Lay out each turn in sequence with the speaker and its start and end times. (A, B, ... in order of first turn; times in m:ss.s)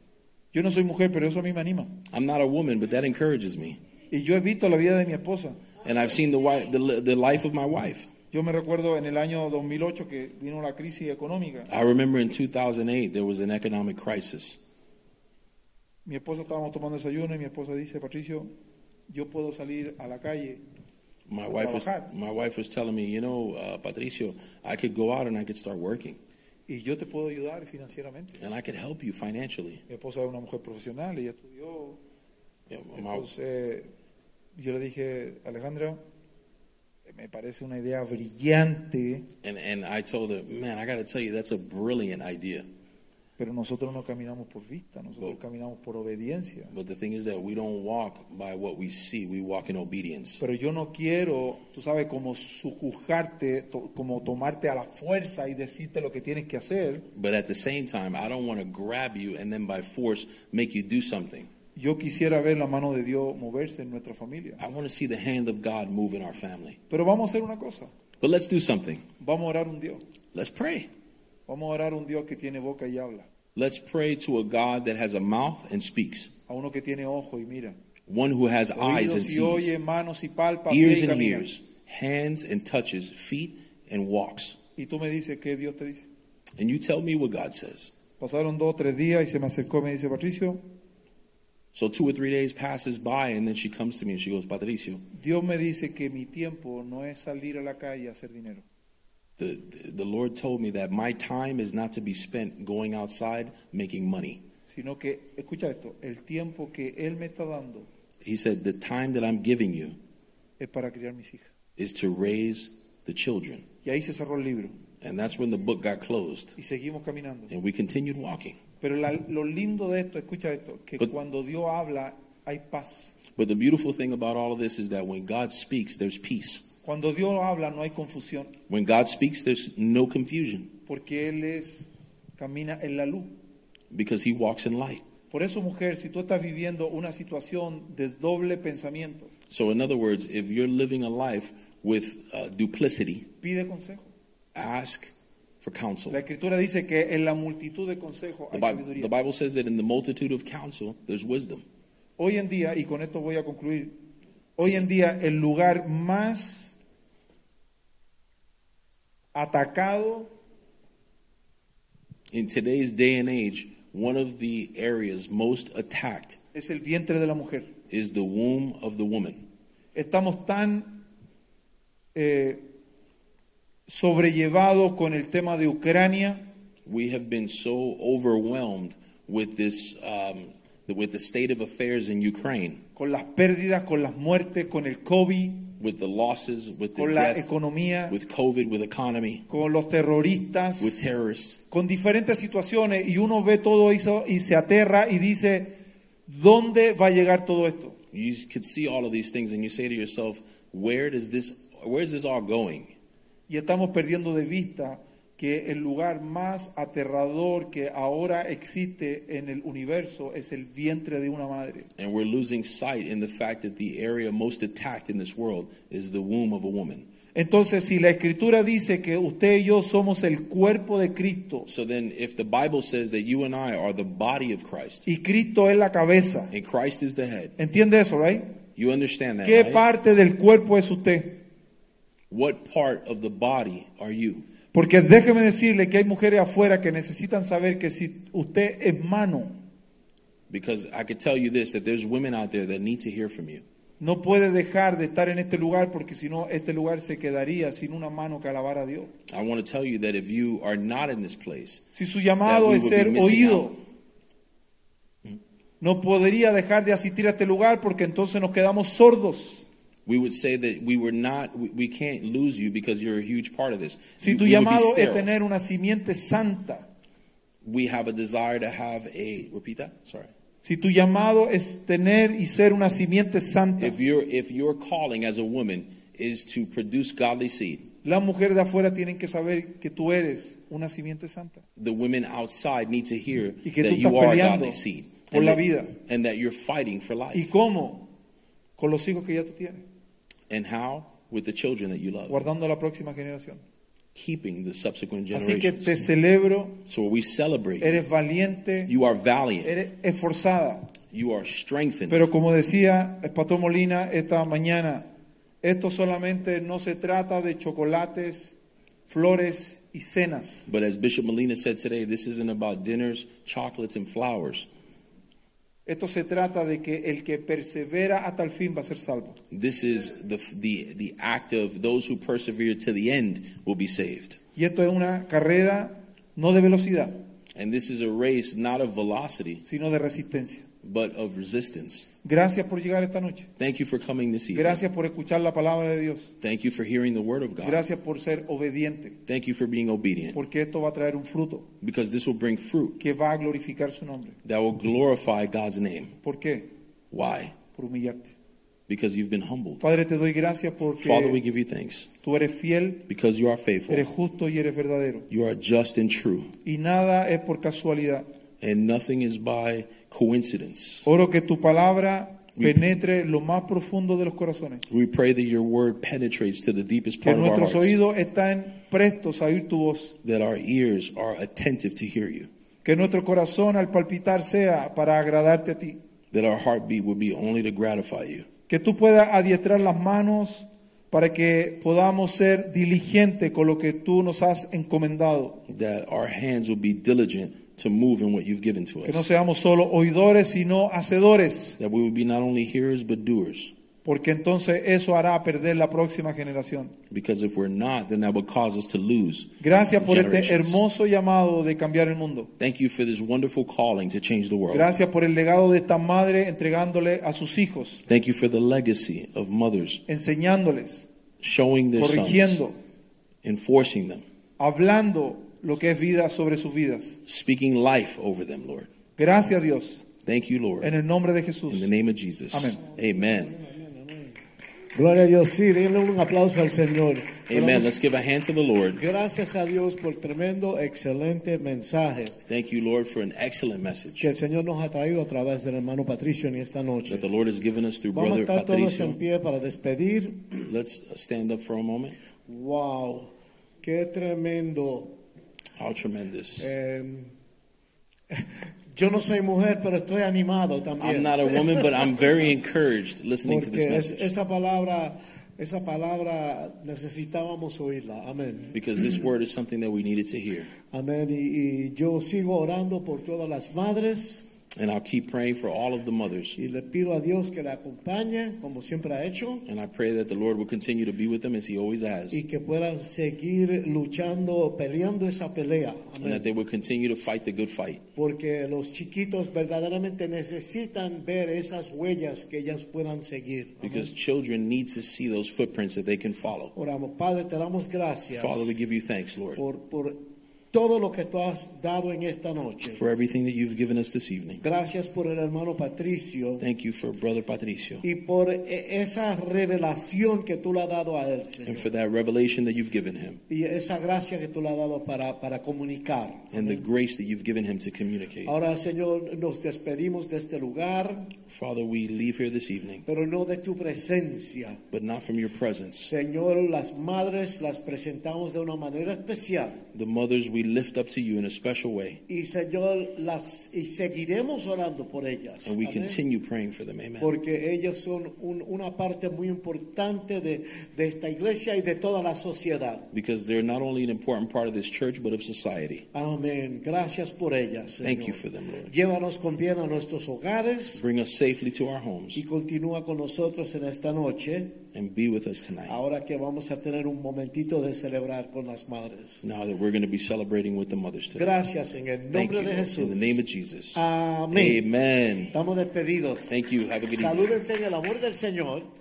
0:00.5-0:02.0 A
0:02.1-0:03.8 B
0:04.1-0:05.6 A
0:05.8-0:08.1 B
0:08.3-0:11.7 A
0:11.7-0:14.6 B
0:16.0-0:18.5 A
0:19.1-0:20.6 A
0:21.3-0:26.2 B
0:21.5-0:22.1 A
0:26.7-0:28.4 A
0:28.4-0:29.8 B
0:29.9-0:32.0 A
0:32.7-0:33.3 B
0:32.9-0:33.9 A
0:34.6-0:36.0 A
0:37.1-0:39.3 A
0:39.4-0:42.7 B
0:43.4-0:46.7 A
0:46.7-0:50.4 B
0:50.4-0:57.1 A
0:57.1-1:01.5 B
1:01.8-1:04.6 A
1:04.6-1:06.8 B
1:06.9-1:07.9 A
1:08.2-1:09.1 B
1:09.2-1:10.0 A
1:10.3-1:10.9 B
1:11.5-1:13.3 A
1:13.6-1:16.4 B
1:16.5-1:17.8 A
1:18.1-1:19.8 B
1:18.8-1:21.5 A
1:20.7-1:24.6 B
1:24.8-1:26.1 A
1:26.6-1:27.9 B
1:28.2-1:30.6 A
1:31.7-1:35.1 B
1:35.1-1:38.6 A
1:39.4-1:44.4 B
1:44.7-1:47.9 A
1:48.2-1:50.0 B
1:50.6-1:51.5 A
1:51.8-1:53.6 B
1:53.8-1:54.8 A
1:55.0-1:56.6 B
1:56.6-1:57.5 A
1:57.5-1:58.6 B
1:58.8-2:03.2 A
2:03.4-2:06.8 B
2:06.8-2:08.5 A
2:08.7-2:10.7 B
2:10.9-2:13.3 A
2:13.9-2:15.0 B
2:15.3-2:19.3 A
2:19.5-2:23.3 B
2:23.4-2:24.1 A
2:24.6-2:26.2 B
2:26.1-2:29.1 A
2:28.5-2:31.6 B
2:32.2-2:34.0 A
2:34.6-2:36.8 A
2:39.4-2:40.3 A
2:42.3-2:46.4 B
2:46.5-2:47.7 A
2:47.9-2:49.4 B
2:50.0-2:51.0 A
2:52.2-2:52.6 A
2:53.9-2:56.4 A
2:56.8-3:02.8 B
3:03.0-3:05.8 A
3:05.8-3:07.5 B
3:07.0-3:08.2 A
3:08.1-3:09.4 B
3:09.5-3:11.1 A
3:10.8-3:11.6 B
3:11.7-3:15.8 A
3:16.3-3:18.0 A
3:18.1-3:22.9 B
3:23.5-3:31.9 A
3:32.0-3:37.1 B
3:37.4-3:41.7 A
3:41.7-3:45.1 B
3:45.1-3:46.5 A
3:46.5-3:47.5 B
3:47.6-3:48.5 A
3:48.8-3:49.8 B
3:49.4-3:51.4 A
3:52.3-3:54.4 B
3:54.7-3:59.6 A
4:00.5-4:03.6 B
4:04.0-4:09.1 A
4:09.3-4:11.9 B
4:11.9-4:13.8 A
4:12.4-4:13.7 B
4:15.8-4:19.7 A
4:20.1-4:25.3 B
4:24.2-4:26.9 A
4:27.6-4:30.3 B
4:30.6-4:34.0 A
4:33.8-4:37.9 B
4:38.0-4:41.7 A
4:41.8-4:47.6 B
4:43.6-4:46.0 A
4:47.3-4:48.1 A
4:48.8-4:49.8 A
4:50.5-4:52.5 B
4:52.3-4:53.6 A
4:54.2-4:56.0 B
4:55.3-4:56.8 A
4:56.9-4:58.0 B
4:57.8-4:58.9 A
4:58.9-4:59.8 B
4:59.6-5:01.0 A
5:01.1-5:02.3 B
5:02.1-5:05.1 A
5:05.6-5:10.7 A
5:10.7-5:14.7 B
5:15.9-5:19.4 A
5:19.5-5:24.4 B
5:24.6-5:27.2 A
5:27.5-5:29.6 B
5:29.6-5:30.7 A
5:30.8-5:32.1 B
5:32.2-5:33.5 A
5:33.6-5:34.8 B
5:34.5-5:36.4 A
5:36.4-5:37.8 B
5:37.6-5:39.2 A
5:39.3-5:40.4 B
5:40.3-5:41.7 A
5:41.8-5:43.0 B
5:43.0-5:44.4 A
5:44.4-5:46.2 B
5:46.2-5:46.7 A
5:47.1-5:47.6 B
5:47.7-5:48.3 A
5:48.9-5:49.8 B
5:49.8-5:51.4 A
5:51.0-5:52.1 B
5:52.2-5:53.0 A
5:53.1-5:54.1 B
5:53.9-5:55.3 A
5:55.3-5:56.5 B
5:56.6-5:58.3 A
5:58.6-6:01.1 B
6:01.0-6:04.9 A
6:02.6-6:02.8 B
6:04.9-6:08.0 B
6:07.2-6:10.2 A
6:10.2-6:12.5 B
6:12.8-6:16.0 A
6:16.3-6:18.5 B
6:18.7-6:25.6 A
6:25.7-6:29.3 B
6:29.0-6:31.8 A
6:31.8-6:33.8 B
6:34.0-6:37.0 A
6:37.1-6:40.8 B
6:39.6-6:42.5 A
6:42.6-6:44.9 B
6:44.7-6:48.1 A
6:48.1-6:50.0 B
6:50.1-6:51.1 A
6:51.4-6:52.6 B
6:52.0-6:52.8 A
6:53.4-6:54.2 B
6:54.6-6:57.2 A
6:57.3-6:58.9 B
6:59.2-7:00.1 A
7:00.2-7:01.0 B
7:00.8-7:01.9 A
7:01.7-7:03.6 B
7:02.5-7:02.8 A
7:03.0-7:04.4 C
7:04.9-7:07.9 C
7:07.5-7:09.0 B
7:09.0-7:12.4 C
7:12.5-7:14.3 B
7:14.2-7:17.3 C
7:17.1-7:19.2 B
7:18.1-7:20.7 C
7:20.7-7:22.2 B
7:22.5-7:23.3 C
7:23.8-7:25.2 C
7:25.8-7:26.8 B
7:26.6-7:27.3 C
7:28.3-7:32.2 C
7:31.0-7:34.3 B
7:33.4-7:38.8 C
7:38.7-7:40.7 B
7:40.9-7:44.5 C
7:44.7-7:46.6 B
7:46.6-7:49.7 C
7:49.7-7:52.4 B
7:52.3-7:56.5 C
7:56.2-7:58.0 B
7:58.2-8:04.1 C
8:03.8-8:06.7 B
8:06.8-8:08.7 C
8:08.3-8:09.6 B
8:09.6-8:13.0 C
8:12.9-8:14.6 B
8:14.6-8:16.6 C
8:16.6-8:18.1 B
8:18.0-8:21.9 C
8:21.6-8:23.4 B
8:23.5-8:26.8 C
8:26.5-8:28.6 B
8:28.5-8:31.4 C
8:31.5-8:33.0 B
8:33.0-8:34.8 C
8:34.9-8:36.1 B
8:36.1-8:39.8 C
8:39.9-8:42.2 B
8:42.3-8:46.2 C
8:45.6-8:47.4 B
8:47.2-8:53.1 C
8:53.1-8:56.1 B
8:56.1-9:01.0 C
8:58.0-8:58.9 B
9:00.9-9:02.4 B
9:02.4-9:04.8 C
9:04.9-9:06.0 B
9:05.9-9:09.4 C
9:09.4-9:11.6 B
9:11.4-9:13.4 C
9:12.3-9:15.6 B
9:13.9-9:14.8 C
9:15.5-9:16.6 C
9:16.5-9:17.6 B
9:17.1-9:18.9 C